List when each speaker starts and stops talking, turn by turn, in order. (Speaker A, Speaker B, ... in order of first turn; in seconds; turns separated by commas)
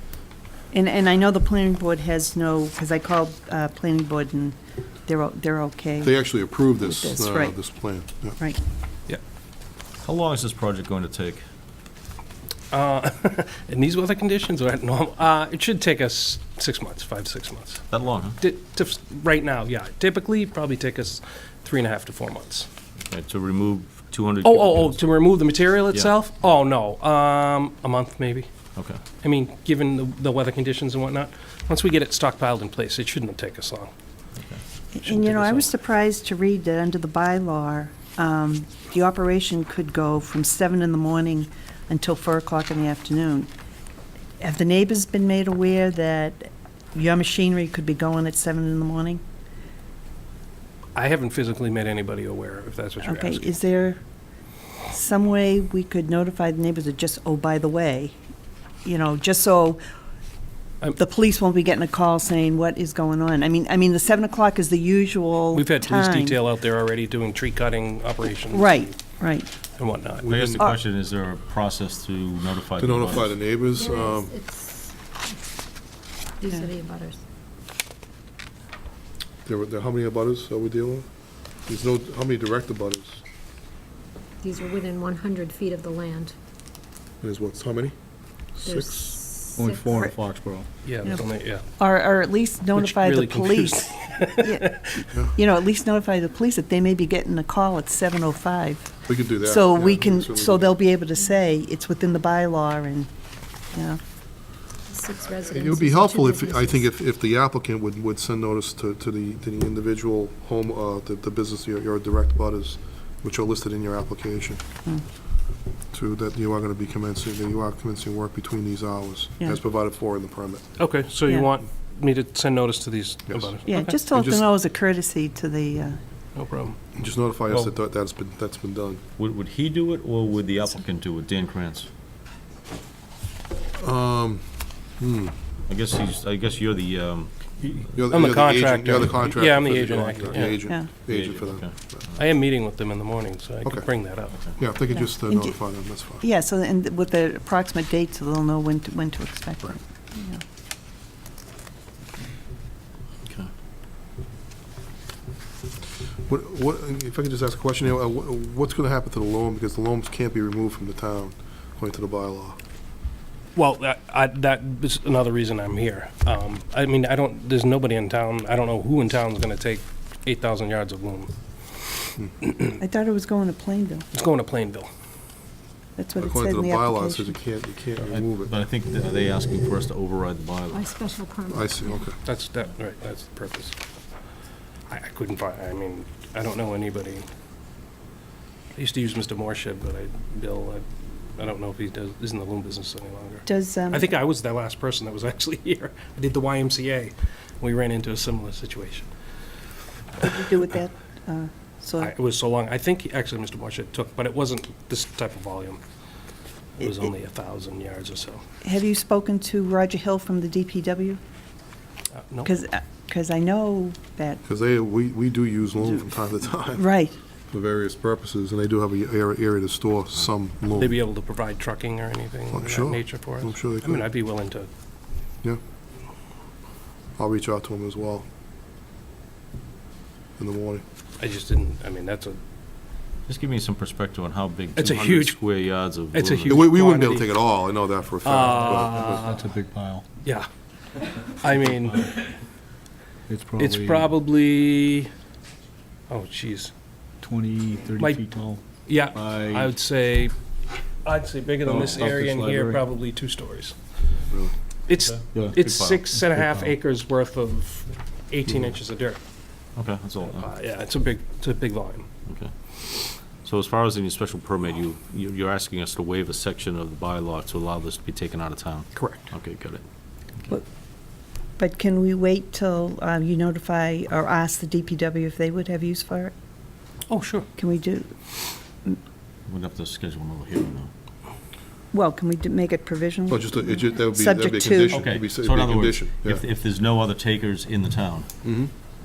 Speaker A: 0.7-7.7, Speaker B: 6.0-8.4, Speaker C: 10.0-11.4, Speaker D: 12.7-17.8, Speaker C: 17.9-18.4, Speaker D: 18.4-22.7, Speaker C: 23.0-25.1, Speaker D: 24.4-28.5, Speaker C: 28.7-29.0, Speaker D: 29.2-33.9, Speaker A: 34.9-43.5, Speaker D: 35.0-35.7, Speaker A: 44.4-49.2, Speaker D: 50.9-53.6, Speaker A: 53.0-54.0, Speaker A: 54.9-58.1, Speaker A: 58.8-59.8, Speaker A: 61.0-66.4, Speaker D: 65.5-69.0, Speaker A: 68.5-69.5, Speaker D: 69.8-70.3, Speaker B: 70.2-70.6, Speaker C: 70.3-73.3, Speaker B: 72.8-74.3, Speaker E: 73.7-75.4, Speaker E: 76.4-77.2, Speaker B: 79.4-81.0, Speaker B: 81.7-83.2, Speaker E: 84.4-86.3, Speaker B: 87.2-87.9, Speaker B: 88.5-89.2, Speaker E: 88.6-90.0, Speaker F: 89.5-90.7, Speaker D: 90.8-91.6, Speaker A: 91.0-103.1, Speaker D: 92.7-95.0, Speaker B: 99.1-100.7, Speaker A: 103.7-104.0, Speaker E: 104.9-106.9, Speaker B: 105.4-114.6, Speaker B: 115.9-120.6, Speaker D: 120.8-123.9, Speaker B: 123.3-123.5, Speaker A: 123.7-126.0, Speaker B: 124.1-124.4, Speaker D: 126.3-126.8, Speaker B: 127.0-129.0, Speaker C: 129.2-131.9, Speaker B: 133.8-135.3, Speaker C: 135.7-138.0, Speaker B: 137.9-142.1, Speaker D: 138.1-140.6, Speaker C: 141.1-142.2, Speaker D: 142.2-144.4, Speaker B: 143.6-143.9, Speaker B: 144.6-146.2, Speaker A: 144.9-150.4, Speaker C: 153.2-153.5, Speaker B: 156.3-162.6, Speaker D: 163.5-171.3, Speaker A: 172.8-174.0, Speaker D: 174.1-174.9, Speaker A: 176.0-177.4, Speaker B: 176.2-178.5, Speaker C: 178.0-180.9, Speaker E: 180.7-182.0, Speaker B: 181.5-182.2, Speaker D: 182.2-183.8, Speaker D: 184.9-187.3, Speaker D: 188.7-199.1, Speaker A: 193.4-194.1, Speaker A: 200.2-202.1, Speaker D: 202.0-205.8, Speaker D: 206.8-208.4, Speaker A: 208.6-211.2, Speaker D: 212.1-212.5, Speaker A: 212.4-214.4, Speaker B: 214.4-216.9, Speaker A: 216.8-217.2, Speaker B: 217.5-221.0, Speaker D: 220.7-224.7, Speaker B: 222.5-224.1, Speaker B: 227.2-228.2, Speaker B: 230.4-230.8, Speaker D: 231.2-232.4, Speaker C: 233.3-236.7, Speaker D: 234.8-235.4, Speaker D: 236.1-237.4, Speaker B: 236.5-239.2, Speaker D: 238.2-239.4, Speaker F: 238.8-240.0, Speaker D: 240.2-240.5, Speaker D: 241.3-242.2, Speaker F: 243.3-244.1, Speaker D: 243.6-245.1, Speaker D: 246.1-246.7, Speaker F: 247.2-249.7, Speaker D: 248.0-248.2, Speaker D: 248.8-250.3, Speaker D: 251.0-253.8, Speaker F: 251.6-252.8, Speaker D: 254.9-259.2, Speaker F: 255.3-255.6, Speaker C: 255.5-256.1, Speaker F: 256.1-256.7, Speaker C: 259.7-260.5, Speaker D: 260.2-262.1, Speaker C: 262.2-269.8, Speaker D: 268.9-269.3, Speaker A: 271.6-276.3, Speaker D: 277.1-277.5, Speaker A: 277.6-278.1, Speaker C: 279.5-280.9, Speaker A: 281.9-285.1, Speaker B: 283.3-286.4, Speaker C: 284.9-288.3, Speaker B: 288.4-288.7